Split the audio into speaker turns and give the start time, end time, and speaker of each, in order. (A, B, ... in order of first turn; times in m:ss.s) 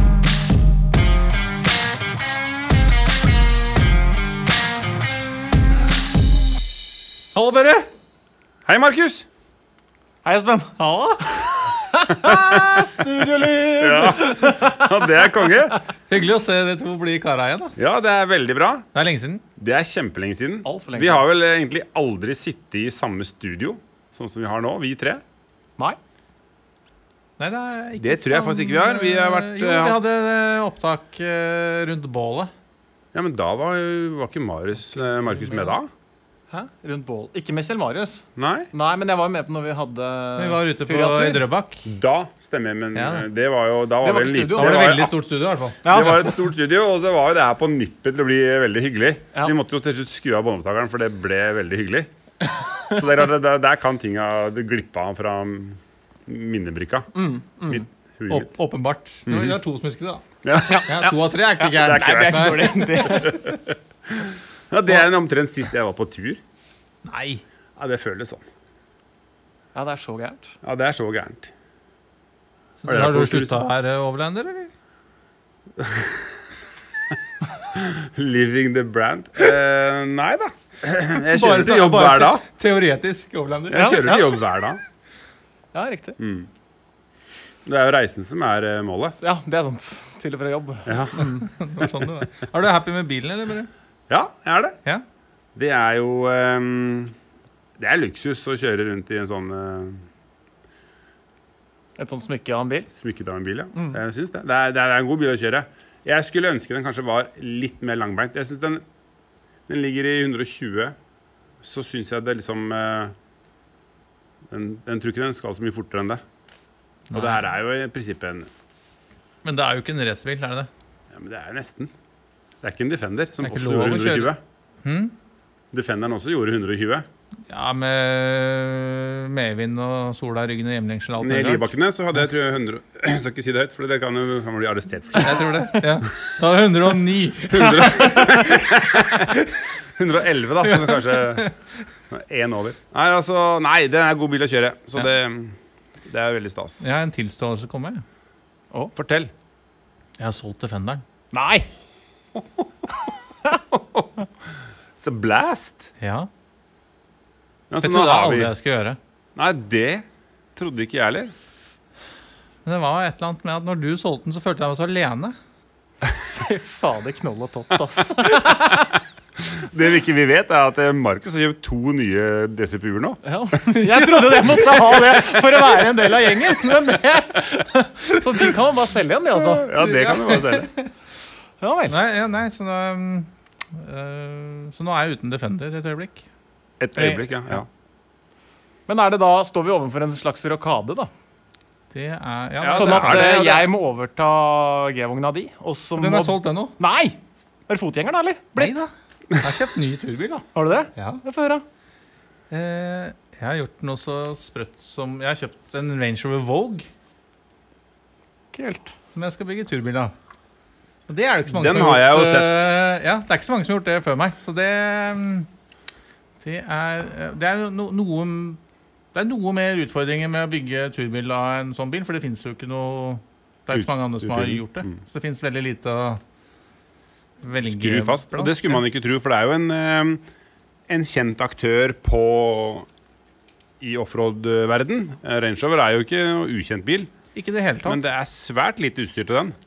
0:07.4-0:07.8 A
0:08.6-0:09.2 B
0:10.2-0:15.7 C
0:12.1-0:15.8 B
0:16.1-0:17.8 A
0:17.8-0:18.8 B
0:18.9-0:19.4 A
0:19.6-0:25.2 B
0:20.6-0:21.2 C
0:27.4-0:32.5 A
0:28.0-0:30.0 B
0:33.1-0:35.9 B
0:34.9-0:35.8 A
0:36.5-0:41.4 C
0:38.4-0:38.7 B
0:40.4-0:41.8 A
0:41.8-0:45.1 B
0:42.9-0:43.2 A
0:44.0-0:45.0 C
0:44.5-0:45.8 A
0:45.8-0:46.4 C
0:45.8-0:52.1 B
0:52.9-0:57.1 B
0:57.1-0:57.8 C
0:57.7-0:58.5 B
0:58.3-1:00.2 A
0:59.3-0:59.6 B
1:00.4-1:01.1 B
1:00.7-1:03.5 C
1:00.8-1:03.4 A
1:01.7-1:06.4 B
1:07.0-1:07.4 A
1:07.8-1:08.4 B
1:09.7-1:10.6 C
1:10.6-1:11.5 B
1:12.8-1:14.7 A
1:12.8-1:13.6 B
1:15.8-1:16.4 B
1:17.7-1:22.4 B
1:21.2-1:24.2 A
1:23.7-1:24.8 B
1:23.7-1:24.4 C
1:25.7-1:26.2 C
1:26.2-1:26.5 B
1:27.6-1:29.2 B
1:29.2-1:31.4 C
1:30.8-1:31.3 B
1:31.2-1:33.7 A
1:34.1-1:34.8 B
1:35.5-1:37.1 B
1:37.8-1:40.0 B
1:42.0-1:42.9 C
1:42.9-1:48.8 B
1:49.7-1:50.9 B
1:51.6-1:53.1 B
1:54.5-1:56.2 B
1:57.1-1:57.5 A
1:57.1-1:58.5 B
1:59.4-2:00.7 A
2:01.1-2:01.9 B
2:02.6-2:04.4 B
2:03.4-2:04.3 A
2:04.8-2:05.1 A
2:05.7-2:07.0 B
2:07.5-2:11.7 A
2:11.2-2:15.5 B
2:15.2-2:19.5 A
2:17.5-2:19.4 B
2:20.0-2:21.5 B
2:20.6-2:21.5 A
2:22.1-2:26.8 B
2:26.8-2:28.0 A
2:28.9-2:29.3 B
2:30.2-2:31.0 A
2:31.3-2:31.7 C
2:35.0-2:35.9 B
2:36.0-2:36.3 A
2:37.7-2:38.5 B
2:37.8-2:39.0 A
2:39.4-2:40.0 B
2:40.6-2:41.3 B
2:42.6-2:45.4 A
2:46.3-2:49.0 C
2:49.4-2:53.2 B
2:53.2-2:59.7 C
2:53.8-2:55.0 A
2:59.4-3:00.7 B
2:59.7-3:00.9 A
3:01.6-3:02.0 C
3:01.9-3:06.2 A
3:06.8-3:07.7 B
3:07.0-3:07.6 A
3:08.9-3:11.1 C
3:11.9-3:13.6 A
3:12.6-3:13.6 B
3:12.7-3:17.2 C
3:16.0-3:16.7 A
3:17.7-3:18.8 C
3:18.6-3:21.2 A
3:20.5-3:21.6 C
3:22.5-3:26.9 A
3:28.5-3:28.9 C
3:29.1-3:30.1 A
3:31.1-3:35.5 A
3:31.5-3:32.7 B
3:36.4-3:38.6 A
3:39.1-3:46.2 A
3:43.7-3:44.9 B
3:47.4-3:48.8 A
3:47.6-3:50.2 B
3:50.9-3:52.9 B
3:53.8-3:57.1 B
3:57.3-3:58.0 A
3:57.8-3:59.6 B